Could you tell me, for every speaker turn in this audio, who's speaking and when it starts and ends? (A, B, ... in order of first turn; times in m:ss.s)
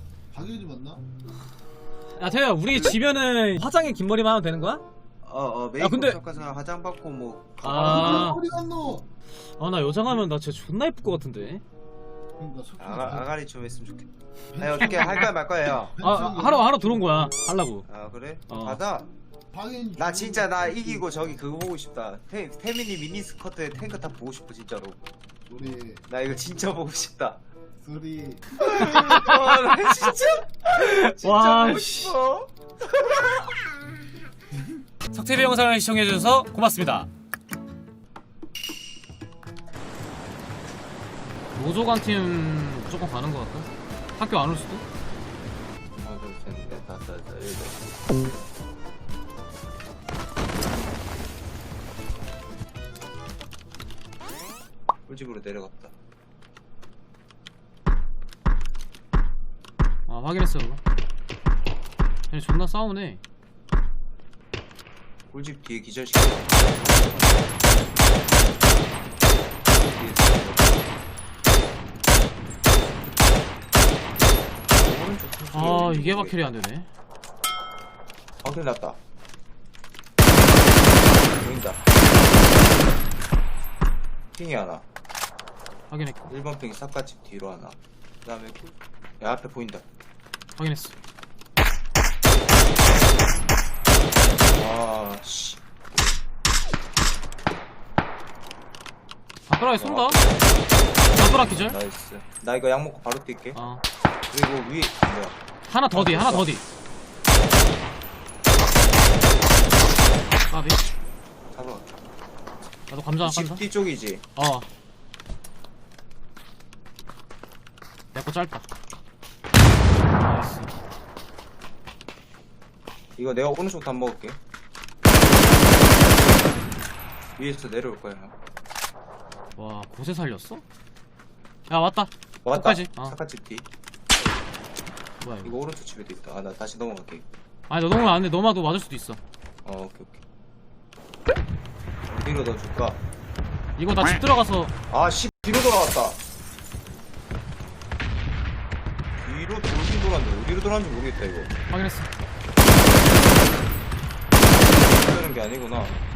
0:00.3-0:01.0 A
0:02.1-0:04.8 B
0:05.2-0:08.4 C
0:05.8-0:06.2 B
0:07.6-0:08.4 B
0:07.8-0:09.0 A
0:09.4-0:11.6 B
0:12.4-0:13.2 A
0:12.8-0:16.0 C
0:14.5-0:15.3 A
0:15.0-0:15.2 B
0:16.0-0:17.8 B
0:16.0-0:16.8 A
0:17.9-0:19.1 C
0:18.5-0:18.8 B
0:19.5-0:21.0 A
0:20.0-0:25.0 C
0:25.5-0:26.0 A
0:26.1-0:27.4 C
0:27.8-0:28.6 A
0:28.5-0:33.4 C
0:28.8-0:30.1 B
0:30.8-0:32.1 B
0:35.1-0:37.1 B
0:41.5-0:44.8 B
0:46.0-0:47.8 C
0:55.1-0:55.9 C
1:00.1-1:00.8 B
1:02.3-1:03.2 B
1:05.3-1:07.4 C
1:09.7-1:10.9 C
1:14.7-1:16.5 C
1:15.5-1:16.9 B
1:18.4-1:19.0 C
1:21.3-1:21.8 C
1:24.3-1:24.8 C
1:25.9-1:26.3 B
1:26.3-1:29.8 C
1:30.6-1:30.9 B
1:34.5-1:36.2 C
1:39.5-1:40.2 B
1:39.8-1:40.8 C
1:41.1-1:41.8 B
1:41.5-1:43.6 C
1:43.5-1:43.8 B
1:44.3-1:45.3 C
1:45.7-1:46.6 B
1:45.9-1:46.5 C
1:50.5-1:50.8 B
1:51.5-1:51.9 C
1:52.9-1:53.6 B
1:53.2-1:54.2 C
1:54.4-1:54.7 B
1:58.1-1:58.6 B
2:00.2-2:00.7 B
2:03.2-2:04.4 C
2:07.4-2:08.3 C
2:09.6-2:10.6 B
2:11.7-2:13.1 B
2:12.4-2:13.6 C
2:15.2-2:15.6 B
2:15.4-2:17.2 C
2:17.7-2:19.2 B
2:19.6-2:20.2 C
2:22.1-2:23.0 C
2:23.8-2:24.7 B
2:24.9-2:26.2 C
2:29.2-2:31.5 C
2:31.7-2:32.1 B
2:34.7-2:36.0 C